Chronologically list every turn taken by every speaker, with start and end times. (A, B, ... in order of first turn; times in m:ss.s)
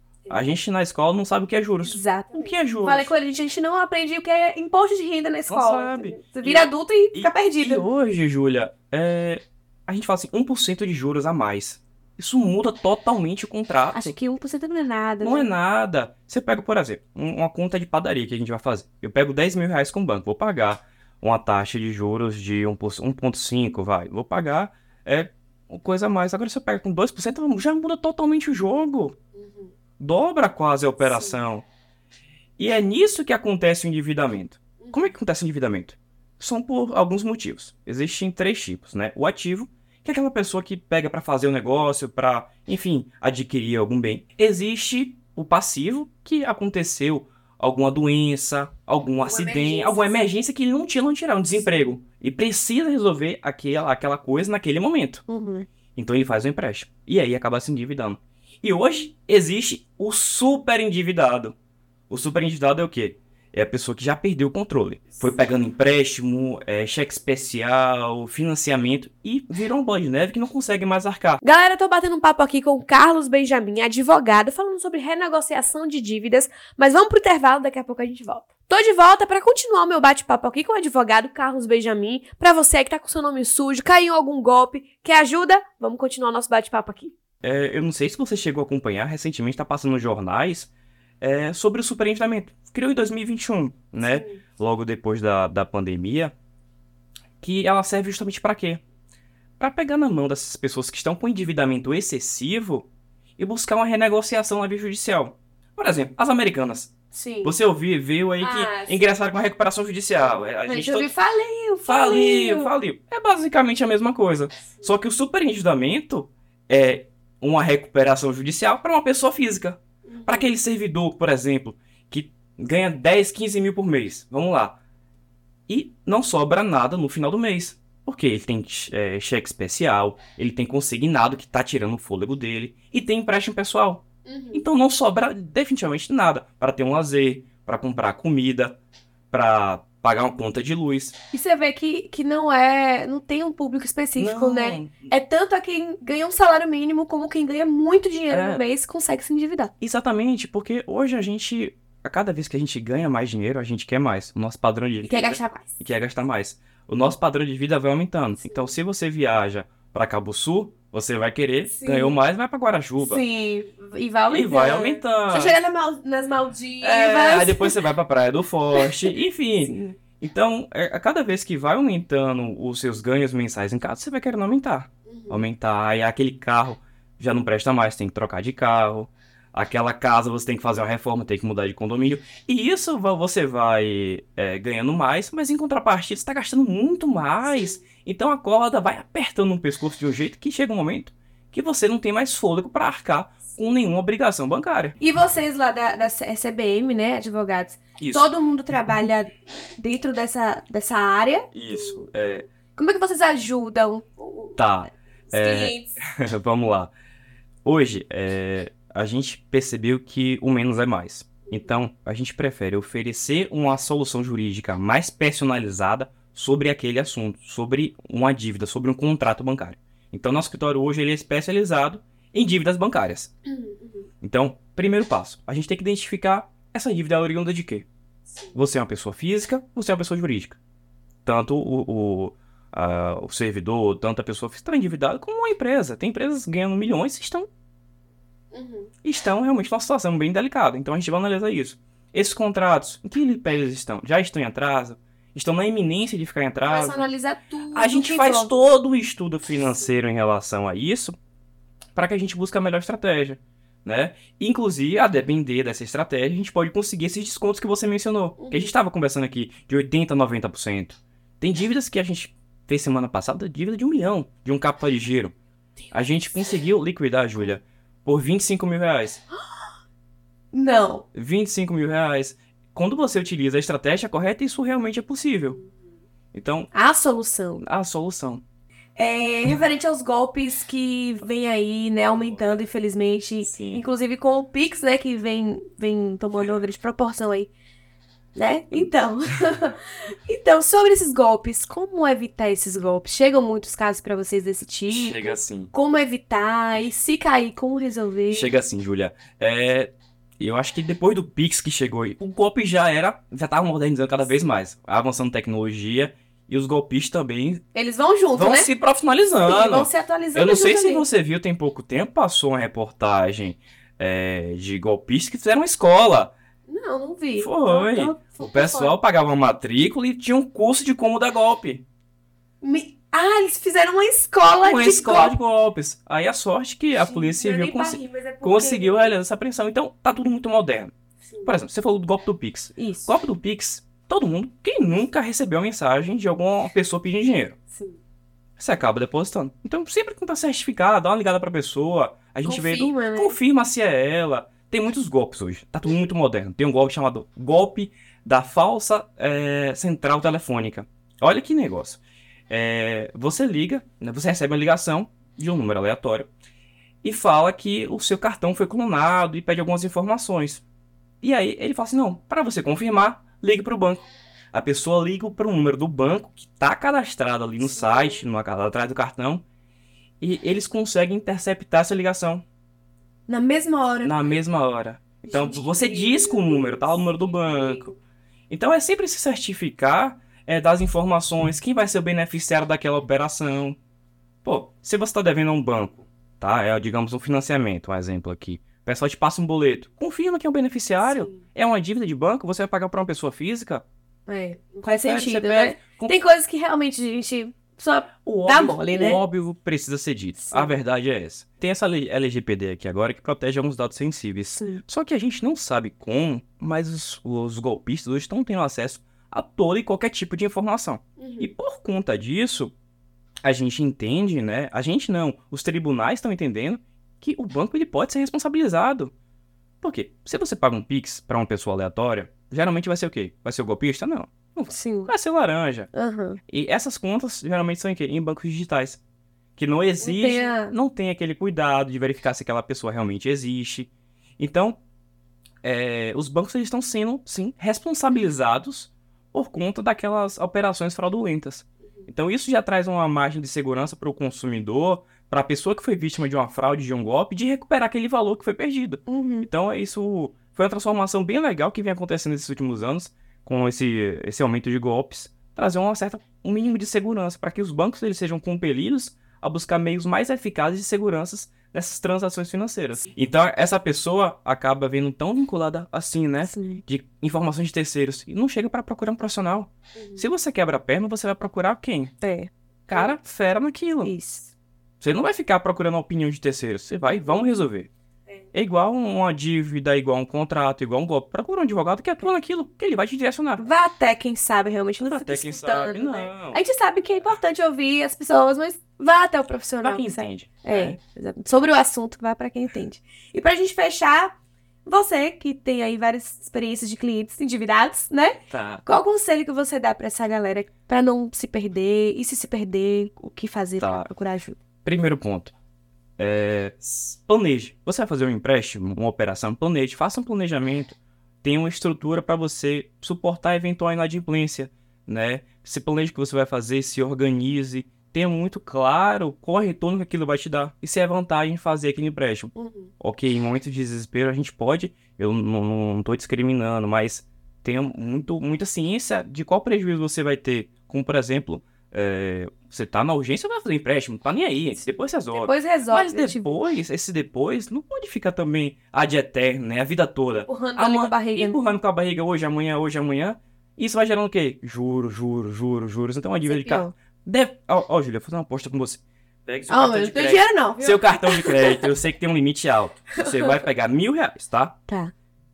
0:00.3-0:03.1 A
0:01.8-0:07.8 B
0:05.5-0:14.2 A
0:13.9-0:15.5 B
0:15.2-0:29.2 A
0:29.3-0:29.7 B
0:30.0-0:31.6 A
0:31.0-0:31.4 B
0:32.6-0:55.2 A
0:34.8-0:35.1 B
0:49.2-0:50.3 B
0:55.3-0:55.7 B
0:56.0-1:01.5 A
1:02.1-1:11.4 A
1:11.4-1:27.1 B
1:27.4-1:36.3 A
1:34.0-1:34.4 B
1:37.4-1:38.8 A
1:39.6-1:51.1 A
1:47.1-1:47.5 B
1:48.4-1:49.0 B
1:50.2-1:52.7 B
1:51.9-2:04.8 A
1:54.6-1:54.9 B
2:00.0-2:00.5 B
2:05.7-2:18.8 A
2:14.2-2:14.7 B
2:19.3-2:21.2 A
2:21.3-2:29.7 B
2:24.2-2:25.1 A
2:28.3-2:28.6 A
2:29.8-2:43.2 A
2:35.0-2:35.8 B
2:38.4-2:38.7 B
2:41.6-2:42.2 B
2:43.0-2:47.7 B
2:44.3-2:45.6 A
2:46.8-3:15.0 A
2:49.6-2:50.0 B
2:55.1-2:55.5 B
3:07.4-3:07.8 B
3:15.0-3:22.0 B
3:18.0-3:18.3 A
3:21.5-3:22.5 A
3:22.8-3:24.6 B
3:24.6-3:26.9 A
3:25.3-3:26.0 B
3:27.6-3:43.3 A
3:43.4-3:44.1 B
3:44.2-3:47.9 A
3:48.3-3:48.6 B
3:48.5-3:50.6 A
3:51.2-3:57.5 A
3:58.5-3:58.9 B
3:59.0-4:07.0 A
4:06.7-4:08.6 B
4:07.7-4:11.2 A
4:11.9-4:25.3 A
4:18.4-4:18.7 B
4:25.9-4:29.2 A
4:30.5-4:31.0 B
4:31.1-4:35.6 A
4:36.3-4:36.7 A
4:36.7-4:37.6 B
4:37.6-4:38.4 A
4:39.0-4:47.5 B
4:43.5-4:43.8 A
4:48.3-4:58.5 B
4:54.9-4:55.7 A
4:58.3-5:07.6 A
5:07.7-5:08.7 B
5:08.3-5:16.3 A
5:09.4-5:11.0 B
5:16.7-5:19.0 B
5:17.4-5:21.8 A
5:22.6-5:25.3 B
5:24.6-5:30.9 A
5:26.9-5:29.1 B
5:31.3-5:31.6 B
5:31.4-5:37.6 A
5:32.8-5:33.1 B
5:37.7-5:38.0 B
5:38.6-5:56.3 A
5:42.4-5:43.4 B
5:57.0-6:00.6 A
6:01.2-6:04.0 A
6:04.5-6:09.4 A
6:07.6-6:08.2 B
6:10.2-6:12.4 A
6:13.3-6:14.2 B
6:14.0-6:17.9 A
6:15.2-6:18.0 B
6:18.5-6:23.8 A
6:24.4-6:33.8 A
6:31.0-6:31.4 B
6:34.3-6:39.2 B
6:34.8-6:36.2 A
6:38.2-6:52.7 A
6:40.5-6:40.7 B
6:51.2-6:51.5 B
6:53.4-6:59.1 A
6:59.8-7:05.9 A
7:04.7-7:05.1 B
7:05.9-7:06.4 B
7:06.5-7:09.0 A
7:09.6-7:14.8 A
7:10.0-7:10.7 B
7:15.6-7:52.2 A
7:29.1-7:29.5 B
7:46.4-7:46.8 B
7:49.9-7:50.3 B
7:52.2-7:53.1 B
7:52.9-7:54.1 A
7:54.0-7:54.5 B
7:55.0-7:57.9 A
7:57.0-7:57.5 B
7:58.5-8:03.6 A
8:03.6-8:24.6 B
8:05.0-8:06.6 A
8:09.8-8:11.0 A
8:18.5-8:18.8 A
8:24.8-8:25.5 A
8:26.2-9:14.8 A
8:42.5-8:42.9 B
8:54.8-8:56.6 B
9:00.5-9:01.6 B
9:06.4-9:06.9 B
9:09.7-9:11.8 B
9:13.2-9:13.6 B
9:14.9-9:15.1 B